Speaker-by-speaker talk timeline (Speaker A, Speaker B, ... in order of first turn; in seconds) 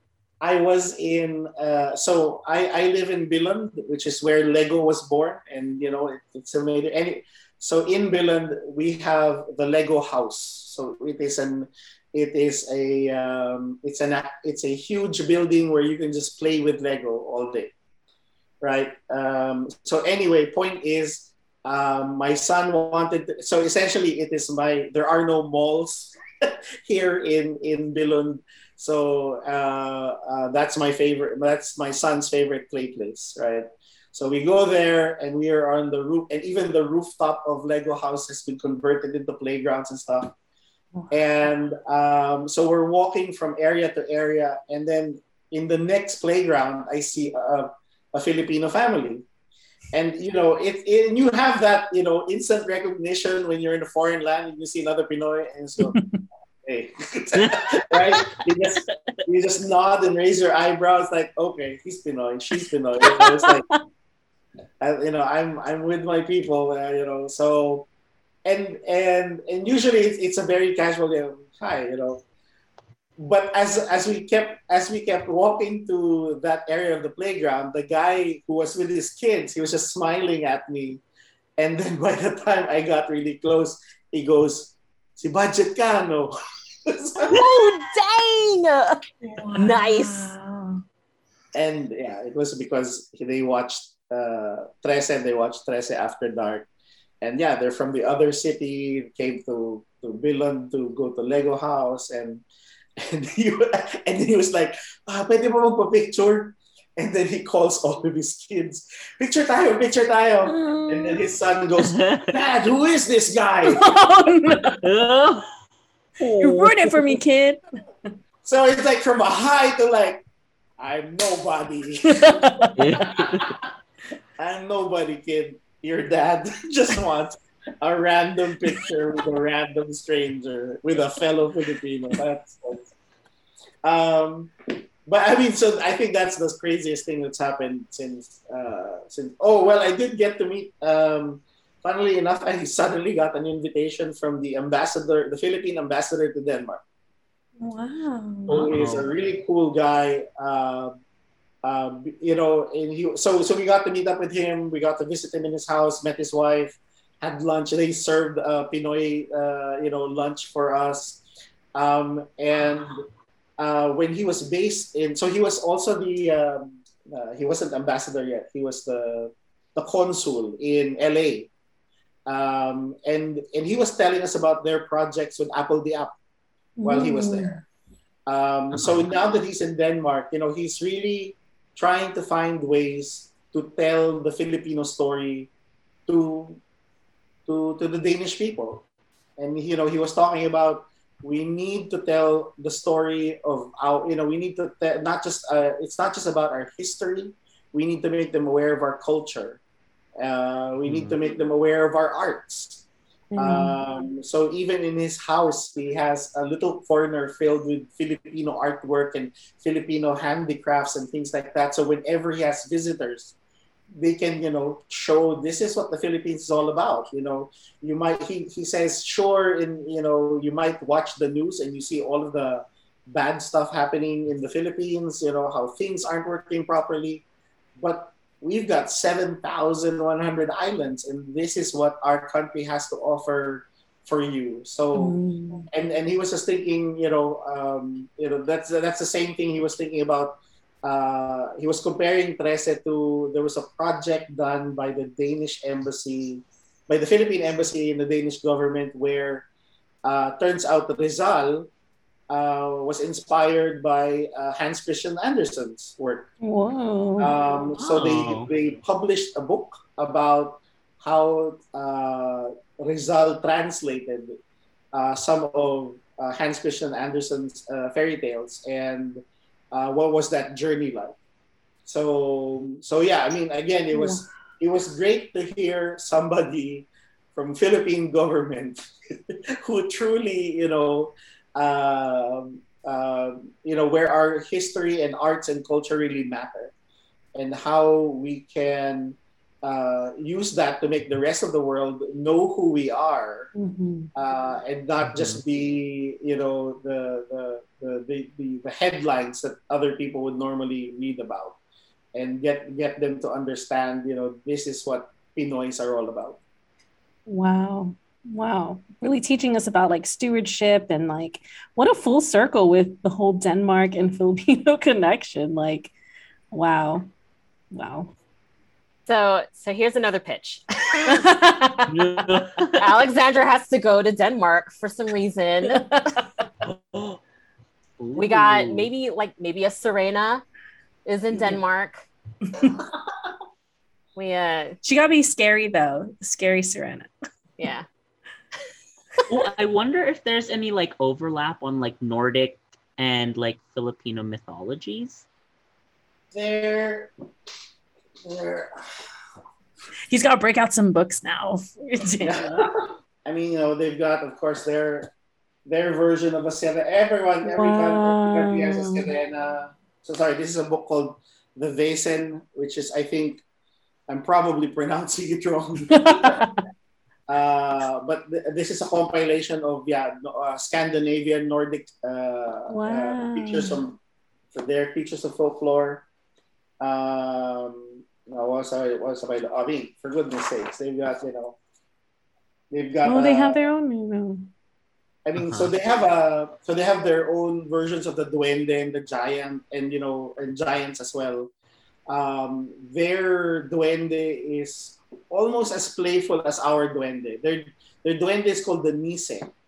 Speaker A: 0.4-17.7, 18.6-40.3, 41.1-49.2, 49.9-56.0, 56.6-63.7, 64.8-67.9, 68.5-72.2, 73.2-81.0, 81.6-86.3, 86.9-87.5, 91.5-96.7, 97.2-102.4, 103.0-114.0, 118.4-120.2, 120.8-123.5, 124.4-132.9, 133.8-134.5, 135.1-146.8, 148.5-151.0, 151.6-161.2, 161.8-163.1, 163.6-171.5, 172.3-176.2, 176.8-177.6, 178.3-185.5, 186.1-186.6, 187.5-188.9, 189.4-199.6, 200.2-213.3, 214.0-227.2, 227.8-235.2, 235.7-249.5, 250.1-251.7, 252.3-256.3, 257.2-264.4, 264.9-271.2, 271.9-286.7, 287.4-293.5, 294.1-301.6, 302.1-306.4, 332.8-333.1, 346.3-347.1, 348.2-348.7, 352.2-355.1, 355.7-363.4, 364.1-366.4, 367.3-374.0, 374.5-376.1, 376.8-381.6, 382.7-383.6, 385.2-391.5, 392.1-399.5
Speaker B: 55.8-56.2, 63.0-63.8, 89.2-90.8, 110.5-111.3, 113.7-114.8, 116.4-117.6, 122.1-123.0, 147.6-148.7, 176.8-177.6, 203.3-203.8, 234.9-235.7, 256.4-257.3, 273.9-274.2, 293.6-294.1, 307.3-315.9, 316.5-317.1, 317.7-318.1, 321.1-322.3, 325.7-326.2, 334.8-337.1, 350.1-352.7, 357.4-359.1, 365.9-366.6, 372.7-373.8, 383.1-384.5
Speaker C: 57.4-58.4, 111.8-112.3, 114.8-115.5, 116.2-117.2, 122.8-123.5, 148.7-149.1, 200.8-201.2, 257.8-258.5, 295.1-295.4, 321.9-323.0, 326.6-327.2, 328.0-328.9, 339.3-345.2, 385.4-385.7
Speaker D: 87.3-90.3, 319.1-321.2, 322.8-325.9, 328.2-330.4, 331.1-332.1, 334.2-334.8, 337.6-337.9